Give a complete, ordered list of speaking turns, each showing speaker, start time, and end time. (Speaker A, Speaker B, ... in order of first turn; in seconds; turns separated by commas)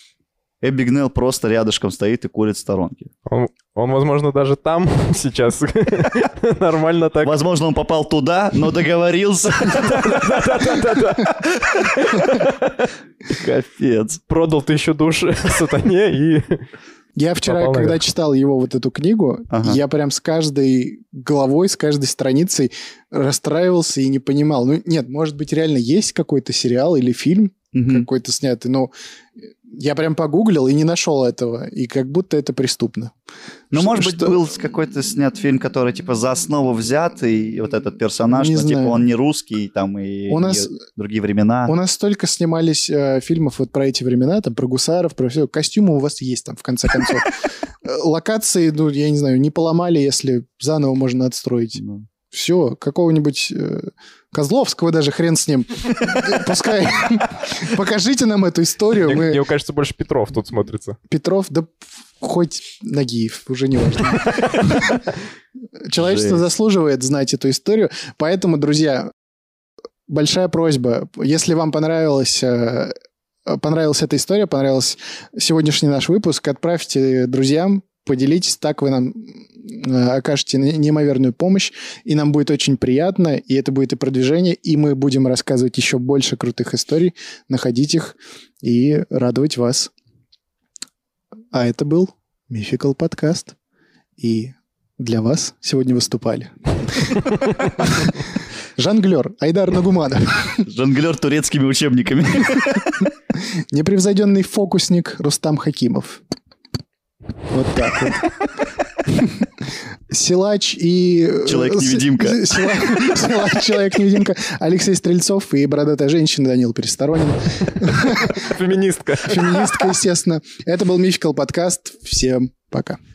Speaker A: 0.6-3.1, Speaker B: 3.3-7.3, Speaker A: 7.2-10.2, Speaker B: 9.6-12.9, Speaker A: 13.3-14.2, Speaker B: 14.3-16.6, Speaker C: 17.1-33.1, Speaker B: 17.4-18.0, Speaker A: 19.5-19.8, Speaker A: 27.7-28.1, Speaker A: 33.7-41.7, Speaker C: 33.7-34.4, Speaker C: 38.3-39.0, Speaker C: 40.3-40.8, Speaker C: 41.6-51.8, Speaker A: 51.8-52.0, Speaker C: 52.3-59.4, Speaker B: 59.0-61.0, Speaker C: 61.1-65.0, Speaker C: 65.8-69.1, Speaker A: 66.0-66.4, Speaker C: 70.1-72.9, Speaker C: 73.5-89.9, Speaker C: 91.5-93.5, Speaker C: 94.2-98.2, Speaker C: 98.8-100.7, Speaker A: 100.7-103.0, Speaker C: 103.7-106.2, Speaker C: 107.5-108.3, Speaker C: 109.1-109.4, Speaker C: 110.1-118.5, Speaker A: 111.4-113.0, Speaker B: 118.2-119.9, Speaker C: 119.2-123.0